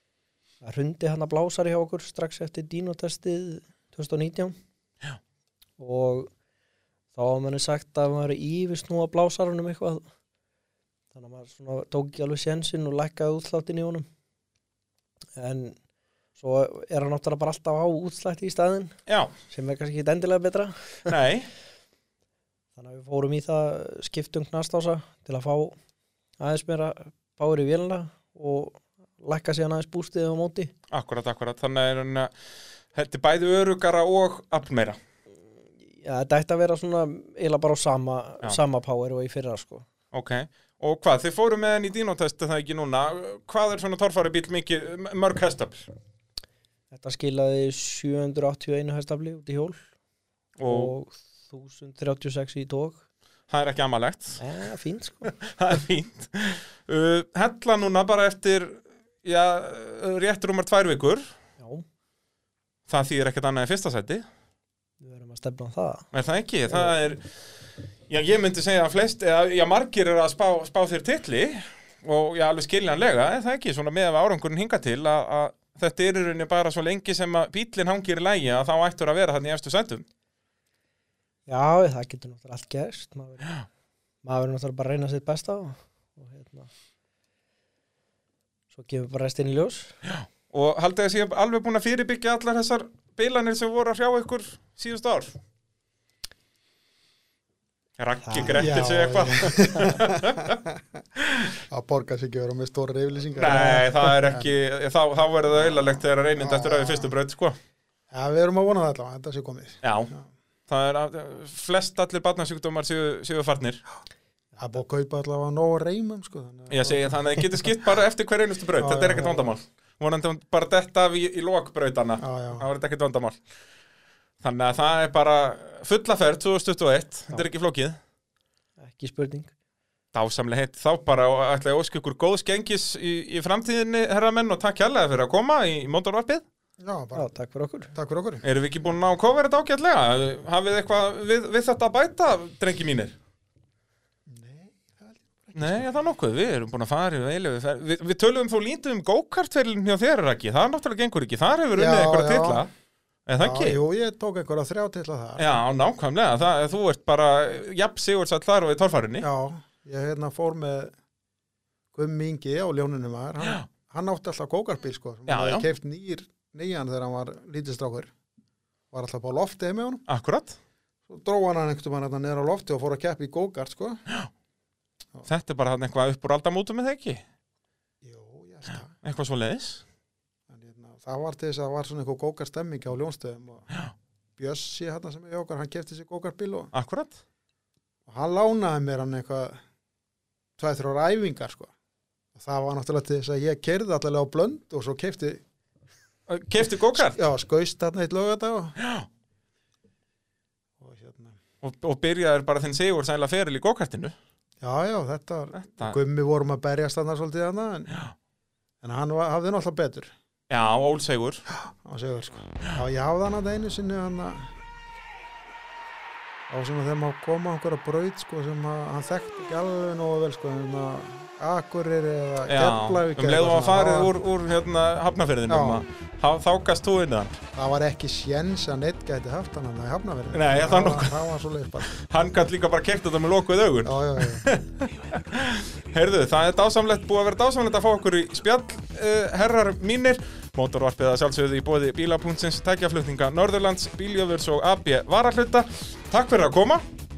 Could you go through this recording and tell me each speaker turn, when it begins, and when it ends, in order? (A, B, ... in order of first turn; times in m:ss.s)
0:00.6-0:04.6 A
0:05.8-0:06.3 A
0:07.1-0:10.0 A
0:11.1-0:14.0 A
0:15.4-0:15.8 A
0:16.4-0:18.9 A
0:19.1-0:19.3 B
0:19.5-0:21.1 A
0:21.0-0:21.5 B
0:22.8-0:25.8 A
0:26.4-0:30.7 A
0:30.9-0:32.3 B
0:32.9-0:35.0 B
0:35.9-0:39.9 A
0:40.1-0:45.9 B
0:46.9-0:49.8 A
0:50.6-0:50.9 B
0:50.7-0:53.0 A
0:53.5-0:54.4 B
0:54.4-0:55.3 A
0:55.2-1:01.3 B
1:01.6-1:01.8 A
1:02.9-1:04.2 B
1:05.0-1:06.1 A
1:06.1-1:07.4 B
1:08.1-1:20.0 B
1:21.5-1:23.6 A
1:24.2-1:26.7 A
1:28.7-1:29.9 A
1:30.0-1:35.3 B
1:38.0-1:40.6 B
1:38.2-1:38.7 A
1:38.5-1:40.8 C
1:41.2-1:41.5 B
1:41.7-1:44.5 C
1:43.4-1:47.6 B
1:43.5-1:43.8 A
1:46.4-1:47.1 C
1:48.1-1:50.3 C
1:49.8-1:50.1 B
1:50.7-1:53.8 B
1:54.6-1:57.6 C
1:56.7-2:03.4 B
1:58.8-1:59.5 C
2:02.2-2:02.7 C
2:04.4-2:08.0 B
2:08.8-2:09.5 A
2:10.1-2:16.4 B
2:16.8-2:17.3 C
2:17.1-2:17.9 A
2:17.9-2:18.4 C
2:18.4-2:23.1 B
2:24.3-2:25.9 C
2:25.6-2:32.7 B
2:31.8-2:32.6 C
2:33.2-2:33.8 B
2:33.4-2:35.4 C
2:35.4-2:39.3 B
2:39.2-2:40.9 C
2:41.9-2:48.1 C
2:45.3-2:45.6 B
2:48.9-2:50.0 C
2:50.1-2:50.6 B
2:51.1-2:54.0 C
2:55.2-2:57.2 B
2:58.0-2:58.9 C
2:59.0-2:59.8 B
3:00.5-3:03.7 C
3:04.4-3:06.7 C
3:06.7-3:07.2 B
3:08.1-3:09.6 C
3:10.6-3:11.7 C
3:12.3-3:15.4 C
3:16.3-3:17.2 B
3:16.9-3:18.8 C
3:18.8-3:19.1 B
3:20.8-3:21.4 C
3:21.6-3:24.1 B
3:24.6-3:28.0 C
3:25.6-3:26.0 B
3:28.8-3:30.1 C
3:30.5-3:31.4 B
3:31.5-3:34.5 C
3:36.5-3:44.1 C
3:42.5-3:47.4 B
3:45.5-3:45.8 C
3:47.5-3:52.0 C
3:50.3-3:51.2 B
3:51.9-4:06.8 B
3:53.8-3:54.5 C